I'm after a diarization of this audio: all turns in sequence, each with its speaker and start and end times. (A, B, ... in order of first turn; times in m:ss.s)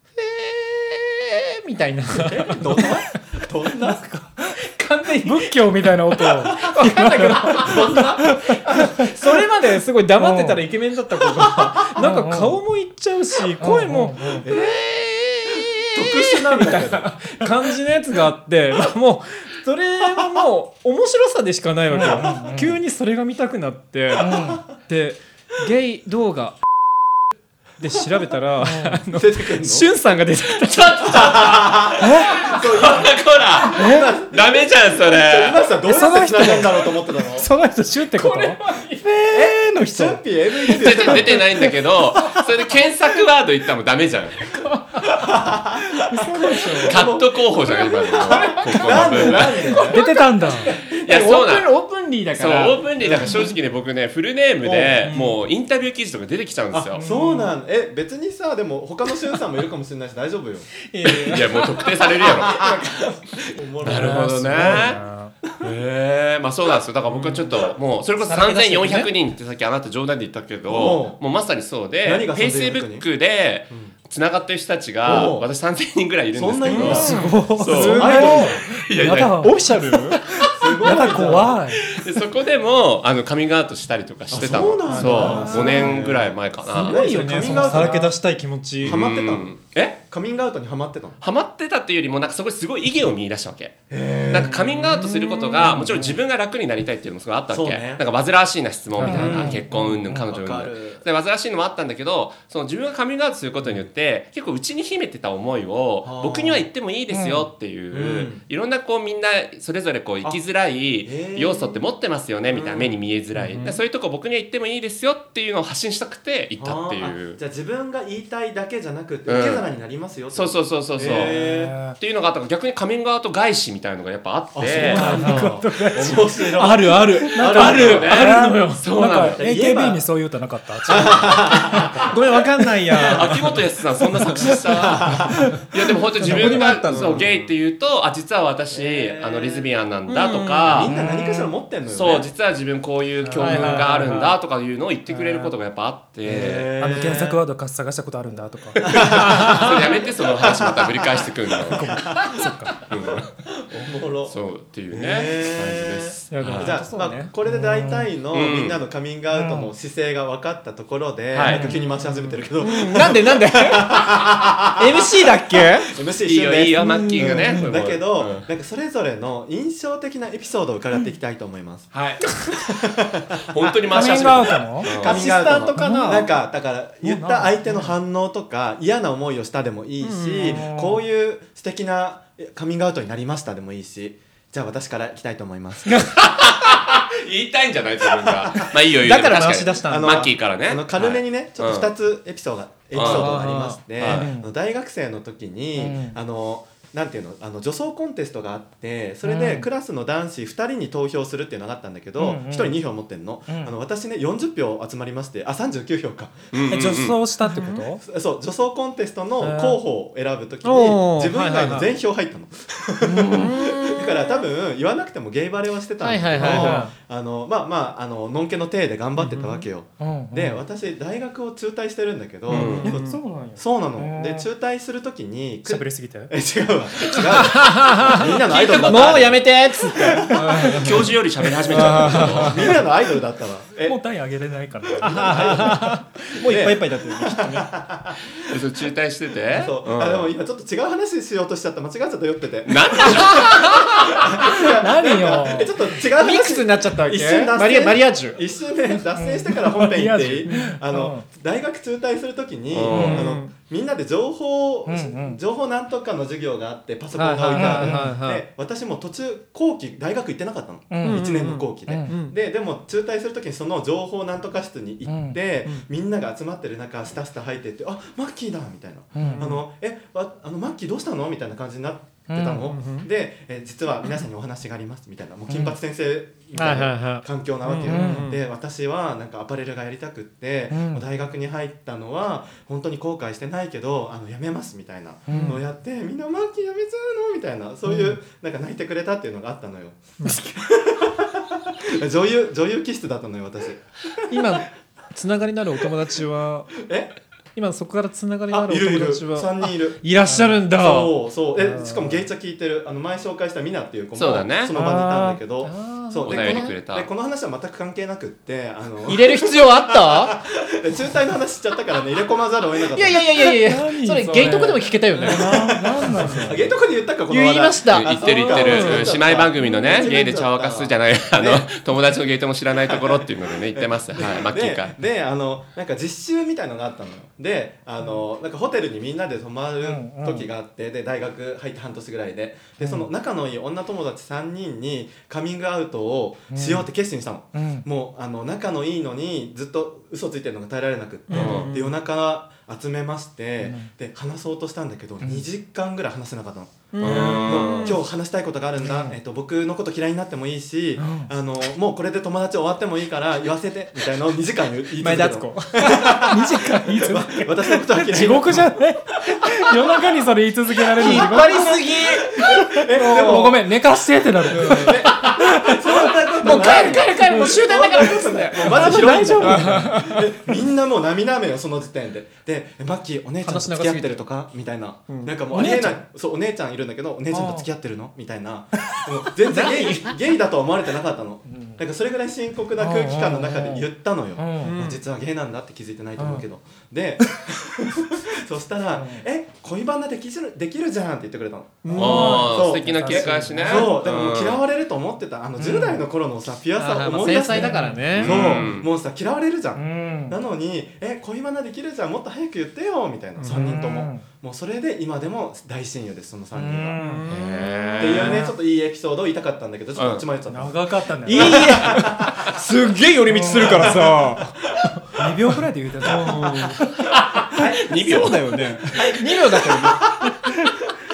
0:00.2-0:02.9 A
0:02.2-0:04.0 B
0:03.9-0:04.6 C
0:04.6-0:08.2 A
0:05.2-0:09.1 C
0:07.6-0:08.3 B
0:08.7-0:26.6 A
0:10.2-0:10.6 C
0:11.4-0:11.7 B
0:12.0-0:12.6 C
0:13.6-0:14.5 C
0:14.4-0:14.8 B
0:15.5-0:17.5 B
0:21.9-0:22.8 C
0:22.0-0:22.3 B
0:24.2-0:24.6 C
0:24.2-0:24.6 B
0:27.8-0:31.5 A
0:28.6-0:29.0 C
0:29.1-0:29.9 B
0:30.7-0:35.6 D
0:31.0-0:37.5 B
0:32.0-0:32.5 C
0:33.8-0:34.1 C
0:35.8-0:40.2 C
0:38.1-0:39.1 A
0:39.3-0:41.7 B
0:40.7-0:44.4 D
0:44.5-0:45.2 A
0:45.1-0:45.9 B
0:46.0-0:47.0 A
0:46.4-0:50.0 B
0:46.9-0:49.6 D
0:48.1-0:52.8 A
0:49.8-0:50.7 C
0:51.0-0:51.7 D
0:52.3-0:57.0 D
0:53.0-0:53.5 B
0:54.6-0:55.1 B
0:55.0-0:55.3 A
0:56.7-1:00.7 B
0:57.0-0:57.4 C
0:57.0-0:57.5 A
1:00.9-1:03.0 A
1:01.0-1:02.5 D
1:02.2-1:05.0 B
1:03.8-1:05.0 D
1:03.8-1:05.3 C
1:05.6-1:19.4 D
1:07.1-1:07.7 B
1:08.2-1:09.1 A
1:10.6-1:11.2 B
1:12.0-1:13.0 B
1:13.7-1:13.9 B
1:15.0-1:15.5 B
1:16.3-1:18.7 B
1:16.7-1:18.5 A
1:17.1-1:22.0 C
1:19.4-1:20.2 A
1:20.5-1:21.6 B
1:21.9-1:27.0 D
1:24.3-1:28.1 B
1:24.8-1:26.0 C
1:24.9-1:25.9 A
1:26.7-1:29.0 A
1:26.8-1:28.1 C
1:28.8-1:30.0 D
1:28.8-1:31.2 B
1:31.2-1:57.4 D
1:33.9-1:35.0 B
1:35.6-1:36.1 C
1:37.5-1:38.0 B
1:39.0-1:41.0 B
1:39.0-1:40.3 C
1:39.0-1:39.3 A
1:46.0-1:46.7 B
1:47.1-1:47.5 C
1:47.9-1:48.4 B
1:51.0-1:51.8 B
1:52.5-1:53.0 B
1:53.4-1:53.7 C
1:56.6-2:01.8 B
1:59.3-1:59.7 D
2:00.3-2:01.3 D
2:01.0-2:02.0 C
2:02.0-2:05.4 D
2:04.5-2:08.1 B
2:04.8-2:05.5 A
2:04.8-2:06.4 C
2:06.6-2:08.8 A
2:07.2-2:12.1 C
2:07.5-2:09.4 D
2:09.4-2:10.0 B
2:10.9-2:12.1 B
2:12.0-2:13.4 A
2:13.1-2:15.1 D
2:14.5-2:15.5 B
2:15.3-2:15.6 C
2:15.7-2:21.0 D
2:16.2-2:17.2 A
2:16.3-2:17.5 B
2:18.7-2:19.7 B
2:20.1-2:20.9 A
2:20.6-2:22.3 B
2:20.8-2:21.6 C
2:21.9-2:26.7 D
2:23.2-2:24.3 C
2:23.4-2:24.3 A
2:25.1-2:25.5 C
2:26.2-2:27.4 B
2:26.8-2:29.2 C
2:28.8-2:32.4 B
2:29.2-2:31.9 D
2:31.7-2:32.8 C
2:32.9-2:33.3 D
2:33.6-2:34.4 B
2:34.3-2:36.8 D
2:34.9-2:51.9 B
2:36.3-2:37.3 A
2:37.4-2:38.1 C
2:38.3-2:38.8 D
2:39.3-2:39.7 C
2:41.3-2:41.6 D
2:41.4-2:41.8 C
2:41.4-2:45.9 A
2:46.2-2:48.4 D
2:46.8-2:47.6 A
2:47.2-2:47.7 C
2:51.9-2:52.3 D
2:52.5-3:06.1 B
2:53.5-2:55.6 D
2:53.9-2:54.9 C
2:54.9-2:56.3 A
2:55.8-2:56.2 C
2:57.0-2:57.9 C
3:00.0-3:00.6 A
3:00.4-3:01.0 C
3:06.1-3:11.9 D
3:08.2-3:08.7 B
3:09.0-3:10.3 A
3:09.8-3:26.4 B
3:12.9-3:13.4 D
3:12.9-3:13.8 A
3:13.9-3:14.3 D
3:14.0-3:14.5 C
3:15.7-3:16.2 C
3:19.2-3:19.7 C
3:22.2-3:22.8 C
3:23.5-3:23.7 C
3:26.5-3:27.2 D
3:26.7-3:28.0 C
3:27.4-3:27.8 A
3:28.0-3:51.0 B
3:29.4-3:29.8 C
3:30.6-3:31.9 A
3:33.0-3:33.5 C
3:33.4-3:34.5 A
3:36.0-3:36.8 A
3:36.4-3:36.9 C
3:39.2-3:39.7 A
3:40.0-3:40.6 C
3:42.5-3:43.2 A
3:42.5-3:42.9 D
3:42.8-3:44.5 C
3:45.6-3:46.3 C
3:47.5-3:51.0 A
3:48.4-3:49.4 D
3:50.3-3:50.6 C
3:50.6-3:52.6 D
3:51.7-3:54.0 B
3:51.7-3:52.8 A
3:53.8-3:55.9 C
3:55.0-3:58.5 B
3:55.0-3:57.7 A
3:58.5-4:00.3 D
3:59.5-4:54.6 B
4:02.7-4:03.7 D
4:04.4-4:05.7 C
4:06.2-4:08.4 A
4:09.0-4:11.2 C
4:12.7-4:13.2 D
4:12.9-4:13.3 C
4:12.9-4:13.5 A
4:14.8-4:15.4 C
4:17.1-4:18.5 A
4:17.5-4:18.1 C
4:20.9-4:21.2 C
4:21.0-4:22.4 A
4:21.8-4:22.1 C
4:25.0-4:25.4 C
4:29.1-4:29.6 C
4:29.2-4:29.6 A
4:32.3-4:32.7 C
4:32.7-4:33.1 A
4:35.5-4:35.7 A
4:36.5-4:38.4 A
4:37.8-4:38.3 C
4:40.7-4:41.0 C
4:45.3-4:45.6 C
4:45.3-4:45.6 A
4:47.9-4:48.1 C
4:54.3-4:56.8 A
4:56.8-4:57.1 B
4:57.6-5:01.2 A
4:58.5-5:00.0 B
5:00.3-5:00.6 C
5:00.7-5:13.4 B
5:01.6-5:02.2 C
5:04.2-5:04.7 D
5:04.7-5:05.4 C
5:05.6-5:06.7 A
5:06.2-5:07.1 D
5:09.1-5:10.4 A
5:12.9-5:15.5 A
5:13.6-5:16.7 C
5:14.4-5:21.8 B
5:17.3-5:19.2 A
5:17.9-5:24.9 D
5:22.9-5:58.8 B
5:29.8-5:30.5 C
5:32.8-5:33.1 C
5:36.5-5:36.9 C
5:37.5-5:37.9 C
5:41.3-5:42.0 A
5:41.3-5:41.7 D
5:43.6-5:43.9 C
5:45.2-5:45.5 C
5:46.9-5:48.0 A
5:47.0-5:47.9 D
5:48.8-5:49.2 C
5:51.0-5:51.3 C
5:55.0-5:56.6 A
5:56.2-6:07.1 C
6:01.0-6:03.6 A
6:02.4-6:03.7 B
6:04.5-6:05.4 A
6:04.5-6:47.0 B
6:06.4-6:10.3 A
6:08.6-6:10.1 C
6:13.4-6:14.2 A
6:15.1-6:15.4 A
6:15.5-6:16.0 C
6:17.3-6:17.7 C
6:19.5-6:20.1 A
6:21.5-6:21.8 C
6:22.8-6:24.8 C
6:24.6-6:25.0 A
6:26.2-6:26.4 C
6:28.9-6:29.2 C
6:31.8-6:32.5 A
6:31.9-6:33.9 C
6:31.9-6:34.6 D
6:35.6-6:36.0 C
6:36.8-6:38.6 A
6:37.5-6:38.6 C
6:38.1-6:38.9 D
6:39.7-6:40.4 C
6:43.4-6:43.7 A
6:43.4-6:44.3 C
6:46.5-6:47.3 C
6:47.0-6:48.0 A
6:47.3-6:48.4 D
6:48.0-6:52.5 B
6:48.0-6:48.6 C
6:50.0-6:50.2 D
6:50.5-6:51.9 C
6:51.2-6:54.6 A
6:53.3-6:53.9 C
6:53.6-6:54.4 B
6:55.2-6:57.0 C
6:56.0-6:56.8 B
6:56.1-6:56.8 A
6:57.1-6:58.4 D
6:57.6-6:57.8 B
6:57.8-7:00.0 A
6:58.9-7:00.6 B